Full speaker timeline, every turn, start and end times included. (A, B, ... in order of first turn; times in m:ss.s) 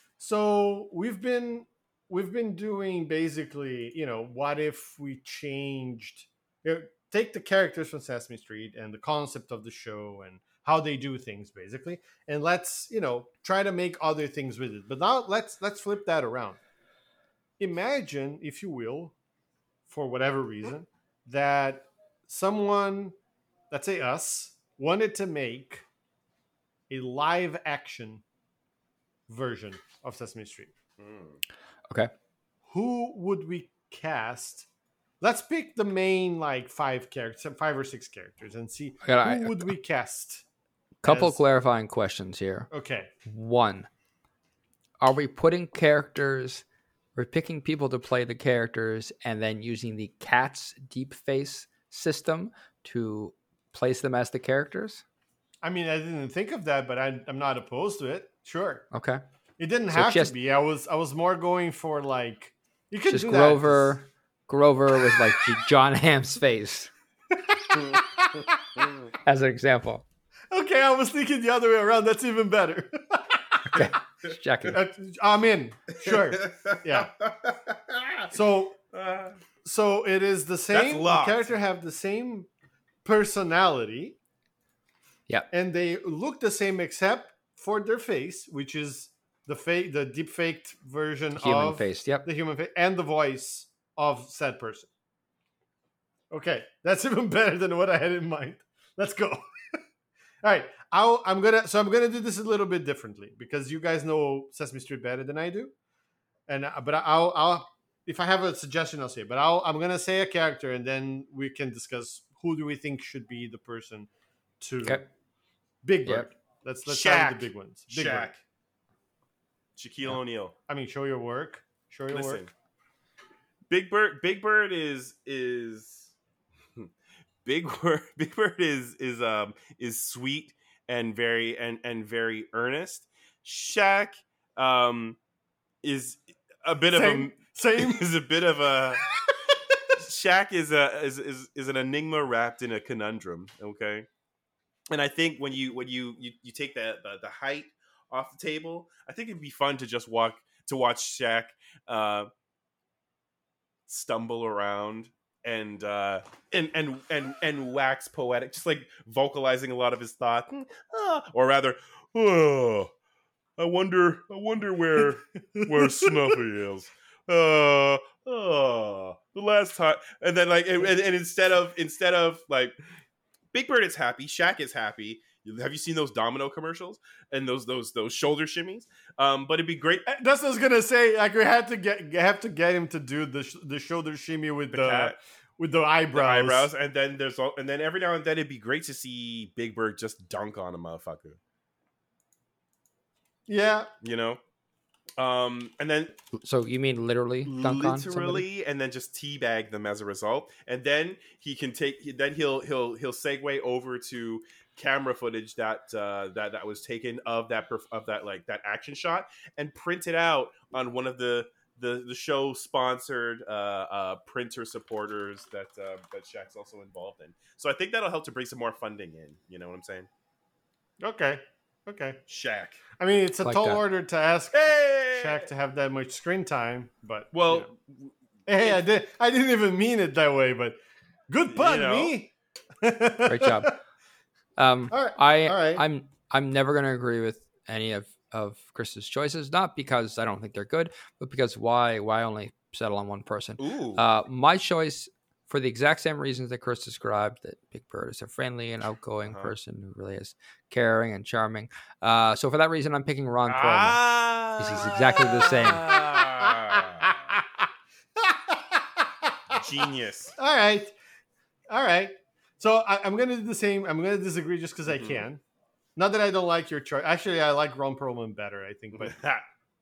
0:00.2-0:16.6 A
0:17.6-0:19.1 A
0:19.9-0:23.2 A
0:23.7-0:25.8 A
0:26.9-0:28.2 A
0:29.3-0:30.7 A
0:31.0-0:31.4 B
0:32.7-0:34.7 A
0:35.2-0:40.4 A
0:39.0-0:39.7 C
0:41.0-0:42.7 C
0:41.0-0:41.4 A
0:42.7-0:43.1 A
0:43.2-0:43.9 C
0:45.0-0:46.6 C
0:47.2-0:55.0 C
0:55.6-0:58.8 A
0:58.9-0:59.2 C
0:59.6-1:04.0 A
0:59.9-1:00.3 C
1:03.1-1:06.9 C
1:07.4-1:08.6 A
1:09.2-1:10.0 C
1:10.5-1:13.9 A
1:13.7-1:14.8 C
1:14.7-1:17.1 A
1:16.0-1:18.3 B
1:18.3-1:18.8 A
1:18.9-1:19.4 B
1:19.6-1:22.5 A
1:20.7-1:21.5 B
1:23.0-1:24.2 A
1:25.5-1:34.9 A
1:31.4-1:32.3 C
1:36.3-1:39.8 A
1:40.4-1:45.7 A
1:46.5-1:54.1 A
1:54.6-1:55.0 A
1:55.8-1:58.3 A
1:56.9-1:58.4 B
1:59.8-2:00.6 B
2:00.7-2:02.5 A
2:02.1-2:02.5 B
2:03.7-2:06.1 B
2:07.4-2:15.2 B
2:15.8-2:19.0 B
2:16.9-2:18.1 A
2:20.0-2:24.1 B
2:24.9-2:32.3 B
2:33.9-2:42.9 B
2:43.6-2:52.8 B
2:45.5-2:46.4 A
2:53.5-3:00.0 B
3:00.1-3:06.7 A
3:04.7-3:05.2 B
3:06.1-3:11.4 B
3:13.5-3:13.9 A
3:14.0-3:14.4 B
3:15.2-3:16.2 B
3:16.4-3:18.4 C
3:17.4-3:40.1 B
3:41.0-3:42.2 A
3:42.3-3:42.8 B
3:43.0-3:47.7 A
3:43.4-3:43.8 C
3:44.5-3:45.5 B
3:47.3-3:48.8 B
3:48.5-3:50.8 A
3:51.3-3:52.3 A
3:51.5-3:52.2 B
3:52.8-3:53.8 A
3:53.3-3:53.8 C
3:54.6-4:15.9 C
3:54.9-3:55.8 A
4:03.6-4:04.1 B
4:09.2-4:09.6 B
4:13.5-4:17.4 B
4:15.4-4:17.6 A
4:18.2-4:19.6 A
4:19.5-4:20.4 B
4:20.4-4:20.9 A
4:21.7-4:25.4 A
4:24.9-4:25.3 B
4:26.0-4:29.2 A
4:29.0-4:29.4 B